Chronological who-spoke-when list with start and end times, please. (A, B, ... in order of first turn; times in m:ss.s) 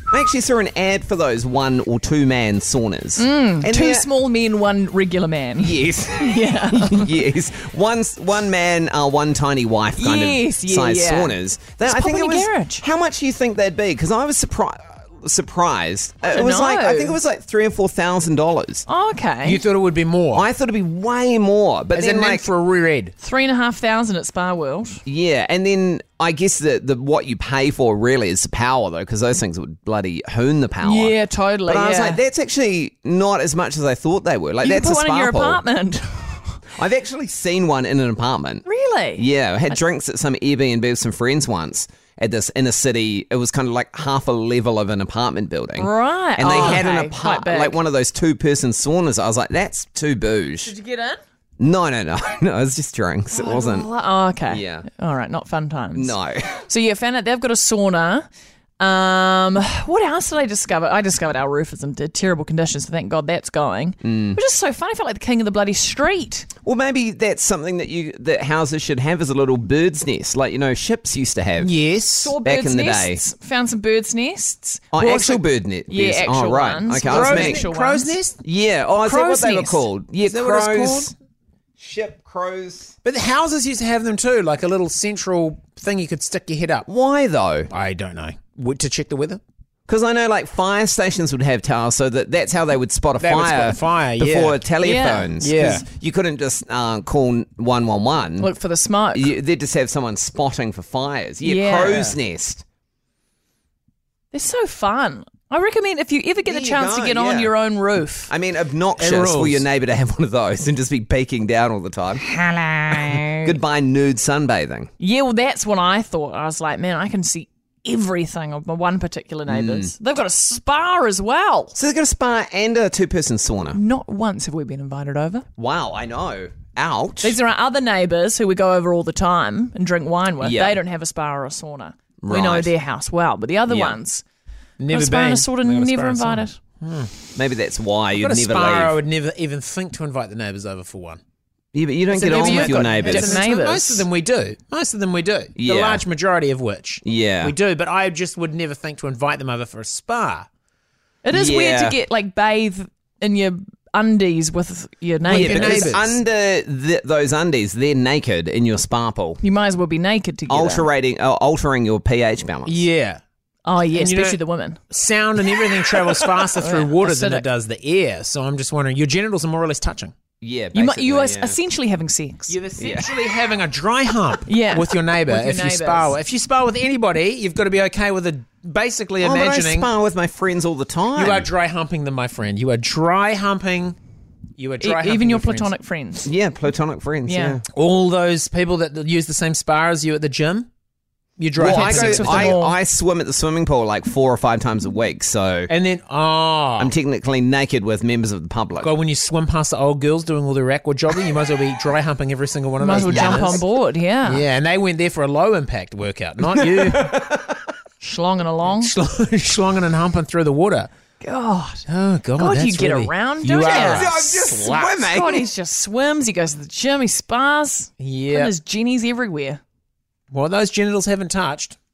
0:00.1-0:04.1 A
0:03.2-0:07.2 B
0:05.6-0:18.9 A
0:10.0-0:12.8 B
0:16.2-0:17.2 B
0:18.9-0:19.6 B
0:19.4-0:20.5 C
0:20.3-0:22.5 A
0:21.9-0:23.1 C
0:23.2-0:25.0 B
0:25.1-0:31.2 A
0:30.8-0:32.2 B
0:31.7-0:35.6 A
0:34.6-0:36.6 B
0:36.8-0:38.6 A
0:38.6-0:39.8 B
0:39.2-0:50.8 A
0:45.8-0:47.8 B
0:50.6-0:51.2 B
0:51.6-0:53.9 A
0:53.3-0:58.3 B
0:54.5-0:54.9 A
0:55.9-0:56.6 A
0:58.8-1:06.5 B
1:04.0-1:04.4 A
1:06.6-1:11.7 A
1:11.6-1:12.4 C
1:12.2-1:18.2 B
1:12.4-1:13.2 A
1:14.9-1:17.7 A
1:17.1-1:18.4 C
1:18.4-1:21.1 A
1:19.0-1:19.9 B
1:20.2-1:21.2 C
1:21.8-1:23.0 A
1:23.0-1:26.9 C
1:26.9-1:27.7 A
1:27.7-1:29.4 C
1:29.9-1:38.5 A
1:33.2-1:34.6 C
1:34.8-1:35.3 B
1:35.4-1:35.8 C
1:38.4-1:39.3 B
1:39.1-1:42.6 A
1:41.4-1:42.2 B
1:44.3-1:48.3 B
1:46.5-1:47.5 A
1:48.3-1:52.2 A
1:49.0-1:49.7 C
1:52.2-1:53.6 B
1:52.9-1:54.9 A
1:55.0-2:01.8 B
1:59.5-1:59.9 A
2:01.8-2:03.8 A
2:03.7-2:05.5 B
2:05.6-2:07.4 A
2:07.2-2:14.2 B
2:10.4-2:10.8 A
2:12.2-2:12.7 A
2:13.7-2:14.0 A
2:14.8-2:17.1 C
2:14.9-2:16.6 B
2:17.4-2:19.0 A
2:18.2-2:21.2 C
2:21.7-2:23.4 A
2:22.1-2:30.5 C
2:22.2-2:24.1 B
2:25.6-2:26.1 A
2:27.0-2:27.6 A
2:31.2-2:36.0 B
2:31.3-2:32.0 A
2:35.2-2:36.2 C
2:35.3-2:39.4 A
2:39.4-2:40.9 B
2:40.5-2:42.8 A
2:42.7-2:43.2 C
2:43.6-2:44.8 B
2:43.9-2:44.4 C
2:44.9-2:50.1 C
2:45.7-2:46.4 A
2:46.6-2:47.5 B
2:50.4-2:51.6 A
2:50.7-2:52.6 B
2:52.5-2:59.9 C
2:52.8-2:53.2 A
2:54.5-2:56.2 B
2:59.2-3:01.5 A
3:01.2-3:04.0 C
3:04.6-3:05.7 C
3:04.8-3:06.3 B
3:06.2-3:07.6 A
3:07.3-3:07.6 B
3:07.7-3:10.7 C
3:11.4-3:12.6 C
3:11.6-3:15.7 A
3:11.6-3:12.8 B
3:15.7-3:17.0 C
3:16.8-3:19.0 A
3:18.8-3:23.6 C
3:22.8-3:24.4 B
3:23.0-3:23.6 A
3:24.2-3:27.2 C
3:26.6-3:27.6 A
3:28.0-3:28.9 B
3:28.7-3:30.9 C
3:31.2-3:34.1 B
3:31.9-3:35.1 C
3:33.5-3:35.5 A
3:35.0-3:39.6 B
3:38.0-3:38.5 C
3:40.3-3:41.8 C